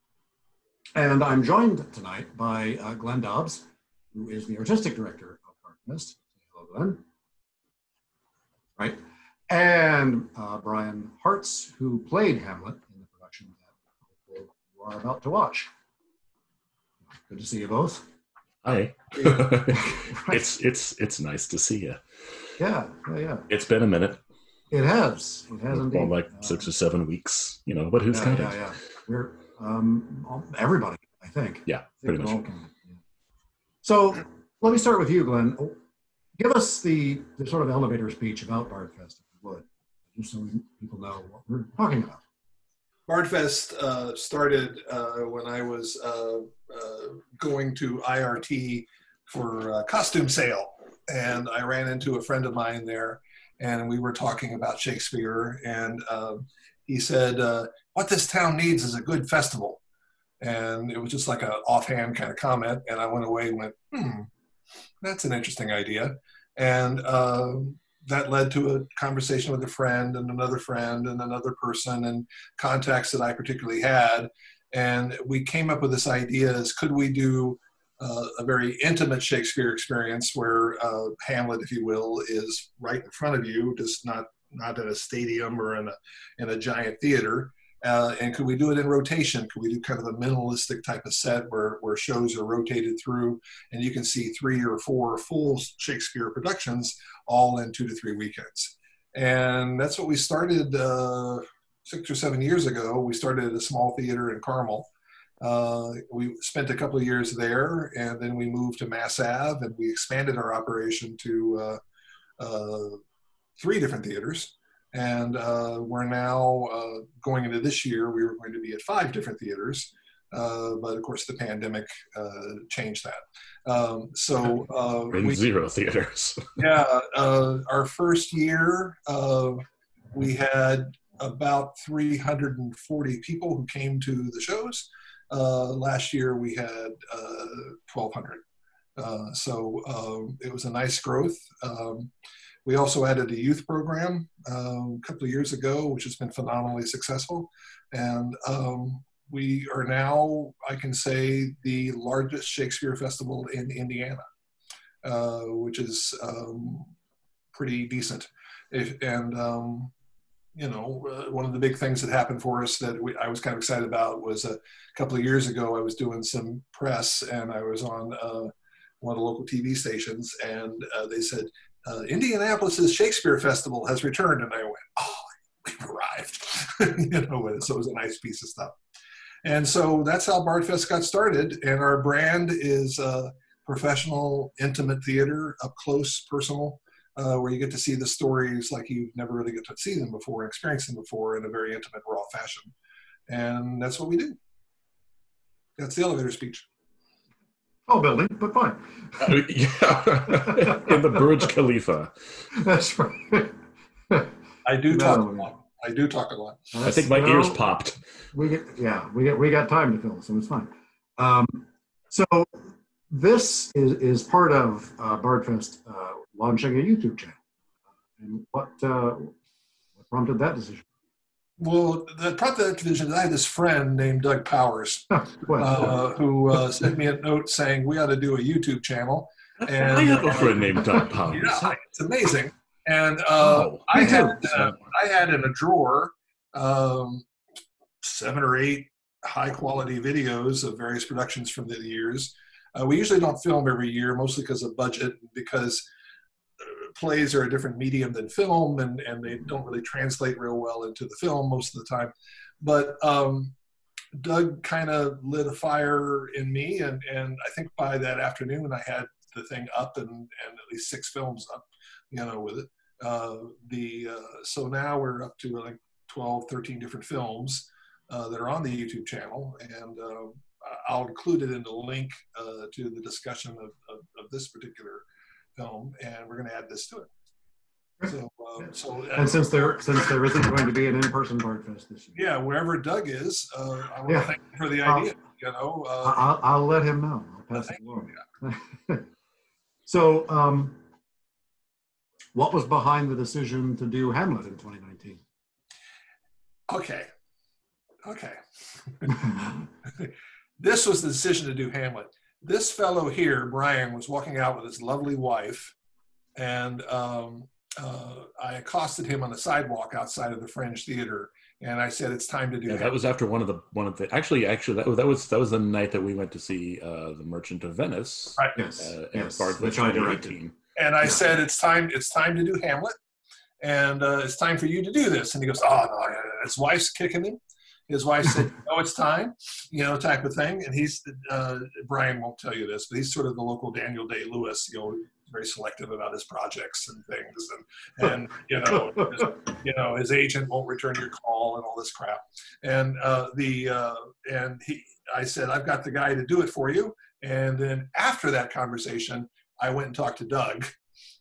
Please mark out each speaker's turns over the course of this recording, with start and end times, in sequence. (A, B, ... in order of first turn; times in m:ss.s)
0:00.9-0:07.0 A
0:08.8-0:15.7 A
0:17.2-0:18.1 A
0:18.6-0:22.2 B
0:19.2-0:20.4 A
0:22.6-0:23.5 A
0:23.5-0:24.2 B
0:24.7-0:26.7 A
0:25.7-0:28.7 B
0:28.1-0:33.0 A
0:31.7-0:32.4 B
0:33.8-0:35.8 A
0:36.4-0:42.2 A
0:43.1-0:59.8 C
1:00.4-1:04.3 C
1:05.0-1:44.9 C
1:45.4-1:51.8 C
1:52.4-1:53.0 C
1:53.6-2:05.4 C
2:05.1-2:06.6 B
2:06.6-2:18.4 C
2:19.0-2:22.1 C
2:22.7-2:34.2 C
2:35.0-2:36.9 C
2:37.5-2:39.9 C
2:40.5-2:58.8 C
2:59.4-3:12.7 C
3:13.3-3:14.4 C
3:15.8-3:16.7 C
3:17.9-3:19.4 A
3:19.2-3:22.5 B
3:20.4-3:21.3 A
3:22.5-3:23.6 A
3:24.7-3:26.7 C
3:24.9-3:25.5 A
3:26.7-3:27.7 A
3:26.8-3:28.0 B
3:28.3-3:37.4 A
3:38.2-3:39.3 A
3:40.0-3:40.8 A
3:41.6-3:57.2 C
3:45.2-3:46.0 A
3:49.6-3:51.8 B
3:53.4-3:54.9 B
3:53.9-3:54.4 A
3:58.0-4:05.8 C
4:06.6-4:13.5 C
4:14.2-4:35.0 C
4:35.6-4:37.1 C
4:38.1-4:40.4 C
4:38.6-4:42.2 A
4:42.2-4:46.2 C
4:44.1-4:45.1 A
4:46.0-4:49.1 A
4:47.6-4:48.2 C
4:49.8-4:50.8 A
4:52.3-4:55.2 A
4:56.7-4:57.1 C
4:58.0-4:59.3 C
4:59.9-5:05.7 C
5:06.4-5:12.9 C
5:12.7-5:20.6 B
5:18.5-5:20.3 A
5:20.8-5:23.0 C
5:23.6-5:27.4 C
5:27.9-5:50.7 C